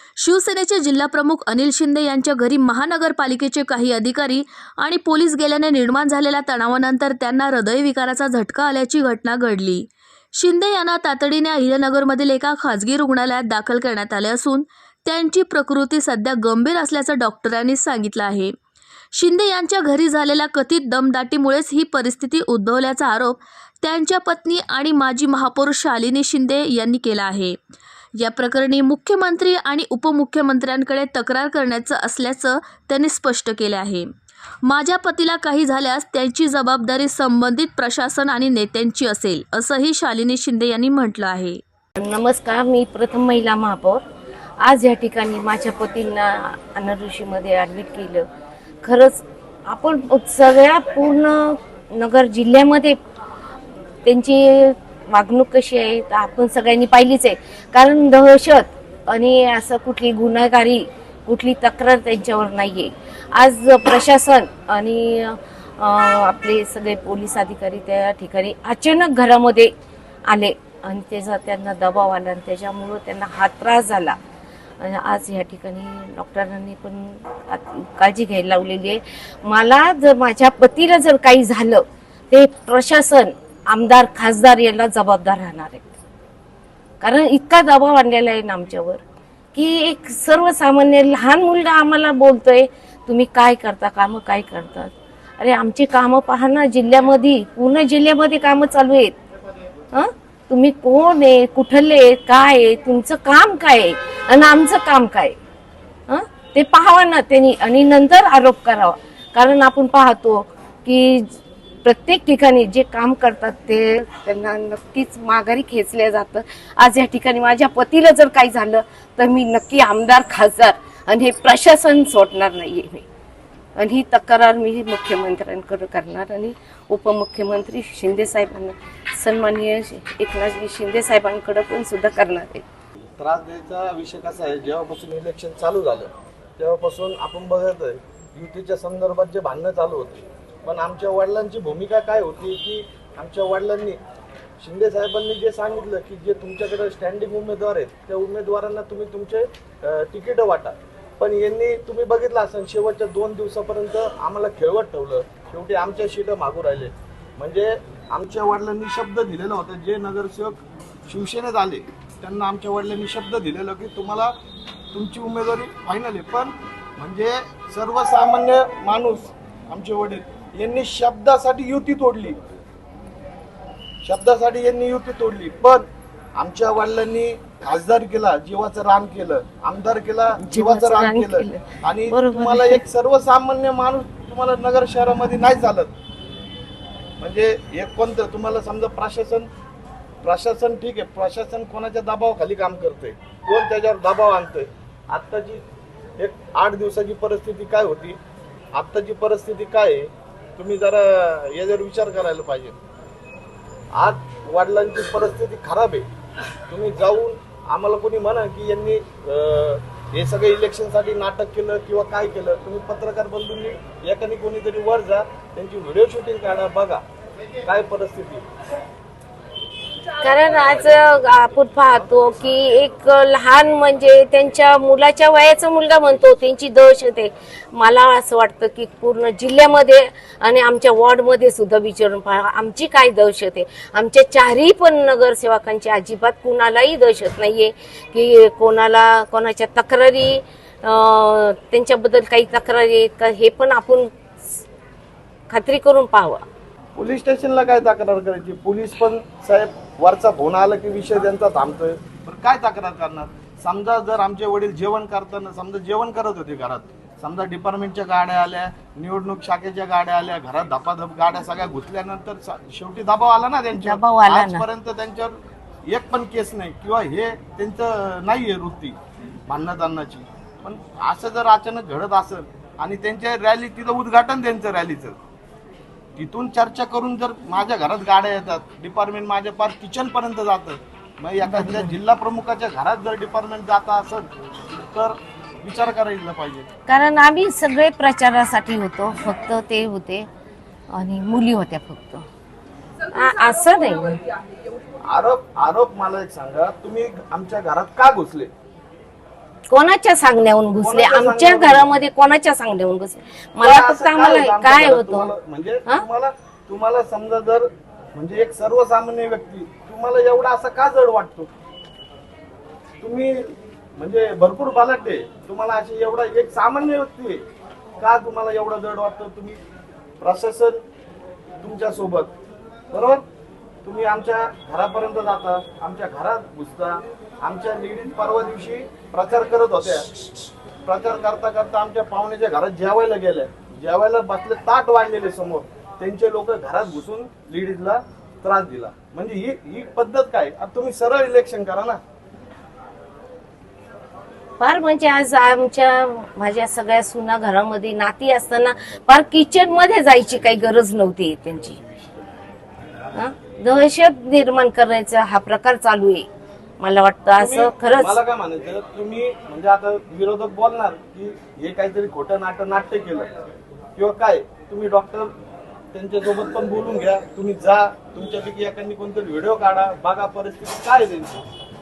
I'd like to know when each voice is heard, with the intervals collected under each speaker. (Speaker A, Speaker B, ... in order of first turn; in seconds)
Speaker A: 0.2-18.5, 19.1-27.6, 28.2-34.0, 34.6-41.6
Speaker B: 42.0-44.0, 44.6-48.2, 48.8-53.0, 54.0-69.7, 70.3-74.2, 74.8-85.9, 87.0-89.0, 89.5-99.1, 99.9-105.4, 106.1-123.0, 123.8-132.6, 180.4-182.8, 220.2-244.6, 245.5-246.4, 263.7-264.7, 281.4-281.9, 286.9-290.3, 290.9-292.2, 293.1-294.2, 299.7-305.3, 344.6-351.8, 353.1-356.3, 356.8-358.2
Speaker C: 133.2-144.0, 144.6-164.3, 164.9-172.4, 174.0-175.8, 176.4-185.9, 187.2-189.5, 190.2-195.6, 196.2-198.2, 198.7-202.8, 203.9-206.1, 206.7-217.0, 217.6-218.4, 246.9-269.0, 269.5-275.2, 276.1-284.3, 284.9-286.7, 295.0-298.5, 300.8-301.9, 303.6-311.5, 313.0-317.4, 318.0-319.6, 320.2-320.8, 321.6-322.3, 322.9-323.2, 323.8-330.1, 330.9-342.0, 357.4-363.3, 363.9-365.3, 365.9-371.4